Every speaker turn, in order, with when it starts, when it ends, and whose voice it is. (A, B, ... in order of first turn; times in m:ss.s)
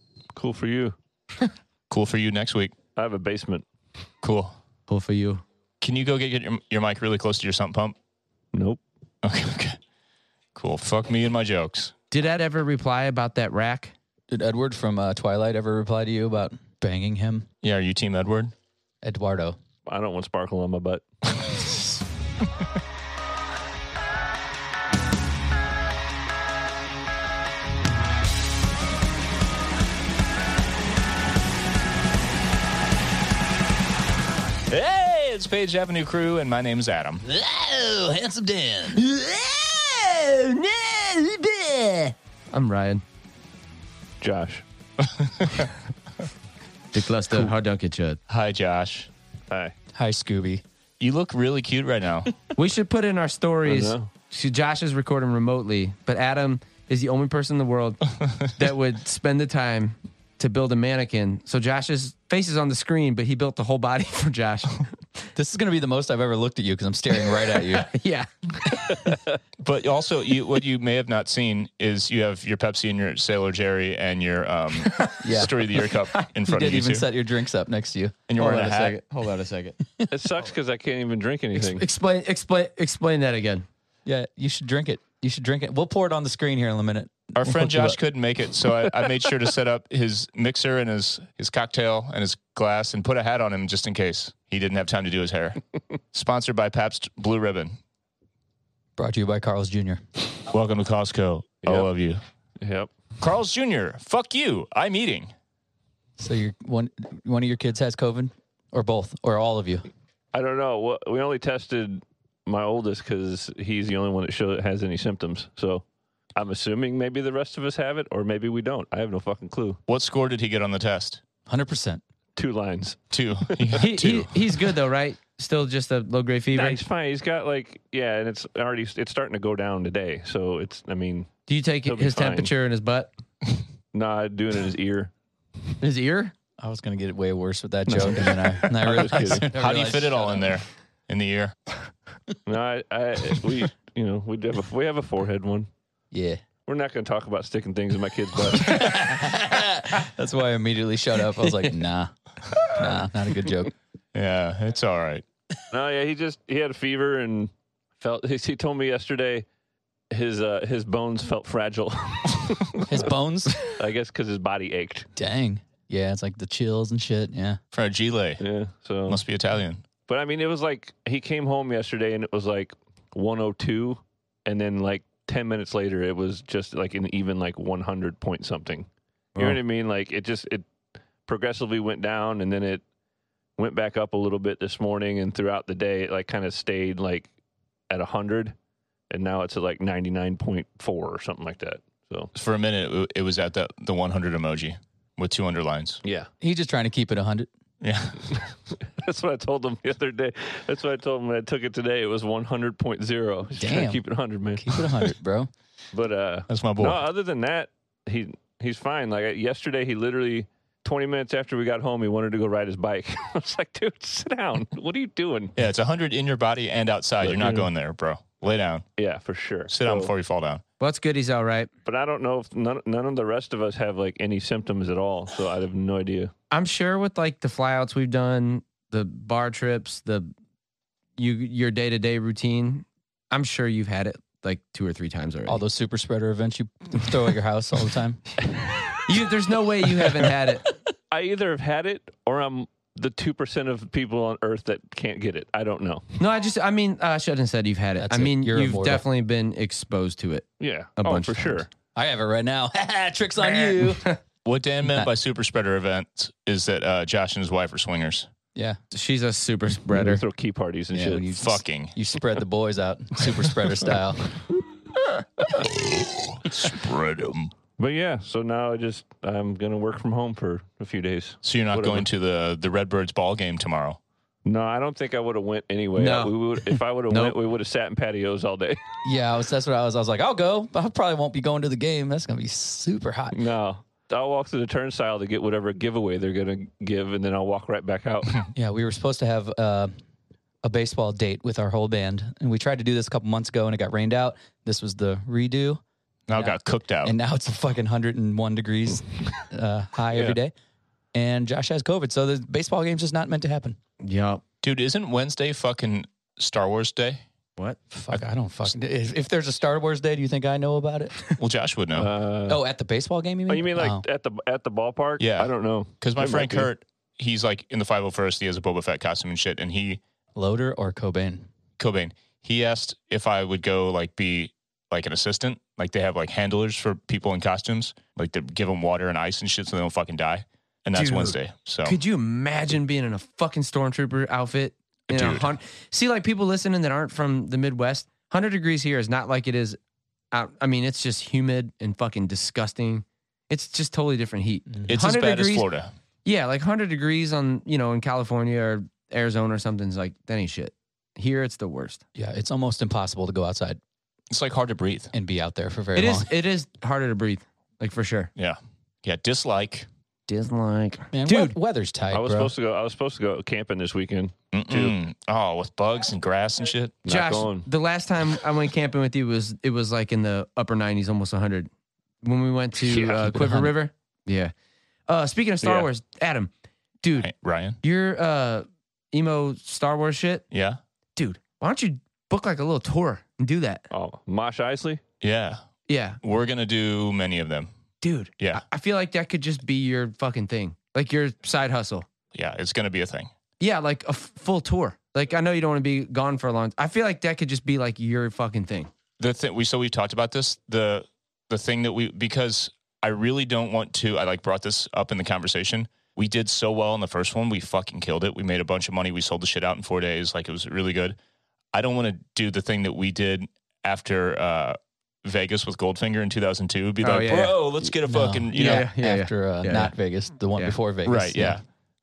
0:00.3-0:01.0 A
0:01.9-0:02.7 B
0:03.0-0:03.6 A
0:04.2-0:04.5 B
0:04.9-0:05.4 C
0:05.8-0:08.0 B
0:08.5-0:08.8 A
0:09.2-0:09.8 B
0:10.5-0:11.9 B
0:12.1-0:13.9 C
0:14.3-0:17.5 D
0:17.6-0:18.5 B
0:19.0-0:19.6 D
0:19.8-0:21.0 A
0:34.7-0:37.2 B
0:37.2-0:39.0 D
0:39.0-0:43.0 C
0:44.2-0:44.6 A
0:45.0-0:45.7 B
0:46.9-0:48.2 C
0:48.3-0:49.1 B
0:49.9-0:50.6 D
0:51.0-0:52.3 B
0:52.6-1:05.0 C
0:53.6-0:54.1 A
1:05.4-1:07.9 D
1:07.3-1:09.1 C
1:09.6-1:17.1 B
1:15.2-1:15.5 D
1:16.4-1:18.2 D
1:18.3-1:19.0 B
1:18.4-1:19.8 C
1:20.1-1:21.8 A
1:21.5-1:23.6 C
1:24.0-1:28.0 D
1:27.3-1:35.6 B
1:36.1-1:37.8 B
1:39.0-1:40.0 D
1:40.5-1:42.2 B
1:41.6-1:41.9 A
1:42.6-1:42.9 A
1:43.2-1:45.3 B
1:46.2-1:49.9 D
1:50.3-1:55.8 A
1:56.3-1:59.8 A
1:59.9-2:01.2 B
2:01.5-2:02.0 D
2:02.4-2:03.8 A
2:03.1-2:04.3 B
2:03.8-2:06.8 C
2:06.5-2:11.3 A
2:11.5-2:13.1 C
2:11.8-2:12.5 A
2:13.9-2:15.1 A
2:15.8-2:16.3 C
2:16.6-2:20.4 D
2:17.9-2:19.0 C
2:18.8-2:19.5 A
2:19.5-2:21.5 B
2:22.4-2:25.7 A
2:26.1-2:26.4 D
2:26.7-2:28.9 A
2:28.7-2:33.7 D
2:31.4-2:31.7 C
2:34.1-2:35.2 B
2:35.7-2:39.4 A
2:40.1-2:43.1 A
2:42.8-2:43.6 D
2:43.6-2:45.1 A
2:45.2-2:47.6 D
2:47.7-2:48.4 B
2:48.4-2:49.2 A
2:49.1-2:49.8 B
2:50.1-3:00.6 A
3:01.2-3:02.8 A
3:03.6-3:07.3 A
3:07.9-3:08.5 A
3:09.1-3:12.3 A
3:12.3-3:16.0 B
3:16.0-3:16.3 A
3:16.4-3:17.5 D
3:17.8-3:18.3 B
3:18.3-3:24.8 A
3:23.5-3:24.0 D
3:24.6-3:25.5 D
3:25.9-3:35.5 A
3:26.5-3:27.0 B
3:35.6-3:38.8 B
3:37.2-3:37.7 A
3:39.0-3:40.1 A
3:39.7-3:40.6 B
3:40.8-3:41.7 C
3:41.8-3:46.3 A
3:46.5-3:50.3 C
3:51.2-3:55.6 C
3:55.5-3:58.2 D
3:59.0-4:00.6 C
4:01.1-4:06.0 A
4:06.2-4:10.5 C
4:08.0-4:09.0 D
4:10.6-4:11.7 A
4:11.0-4:11.7 C
4:11.9-4:14.0 D
4:13.5-4:14.2 C
4:14.4-4:18.3 B
4:14.8-4:15.1 D
4:18.9-4:20.2 C
4:19.9-4:21.3 A
4:20.9-4:24.3 D
4:21.3-4:21.9 B
4:26.0-4:27.5 B
4:27.8-4:32.1 A
4:31.4-4:34.0 B
4:34.4-4:38.8 A
4:36.0-4:36.3 C
4:37.1-4:37.4 C
4:39.0-4:43.4 D
4:43.3-4:48.4 A
4:48.5-4:49.9 D
4:50.6-4:55.8 D
4:56.3-4:57.1 B
4:56.3-5:00.5 D
5:01.1-5:03.8 D
5:04.0-5:04.4 C
5:04.6-5:07.2 B
5:07.9-5:11.2 D
5:08.1-5:08.7 B
5:11.4-5:12.1 B
5:11.9-5:12.6 A
5:12.5-5:14.0 D
5:13.5-5:16.7 A
5:15.2-5:20.0 B
5:20.4-5:21.5 D
5:21.8-5:32.0 B
5:30.9-5:39.8 C
5:35.1-5:35.5 B
5:40.3-5:45.7 C
5:44.9-5:45.9 B
5:46.2-5:52.0 C
5:52.1-5:53.8 D
5:54.3-5:55.1 B
5:55.1-5:56.3 D
5:55.9-5:58.3 C
5:58.4-5:59.9 B
6:00.3-6:01.5 C
6:01.1-6:02.5 D
6:02.1-6:05.0 A
6:04.5-6:07.0 B
6:07.0-6:07.7 A
6:07.0-6:11.7 C
6:12.2-6:14.5 C
6:12.9-6:13.8 D
6:15.1-6:16.5 C
6:15.6-6:15.9 A
6:17.0-6:17.3 C
6:17.2-6:17.8 B
6:17.8-6:20.4 C
6:20.5-6:20.8 B
6:21.2-6:23.8 C
6:23.9-6:25.0 A
6:25.2-6:25.6 B
6:25.9-6:26.2 C
6:26.2-6:27.7 B
6:28.0-6:32.1 C
6:28.4-6:28.6 B
6:32.3-6:33.3 B
6:33.6-6:38.9 C
6:39.2-6:51.2 B
6:51.7-6:58.8 B
6:57.0-6:57.9 C
6:58.0-7:01.6 D
6:58.5-6:59.9 C
7:01.0-7:01.6 B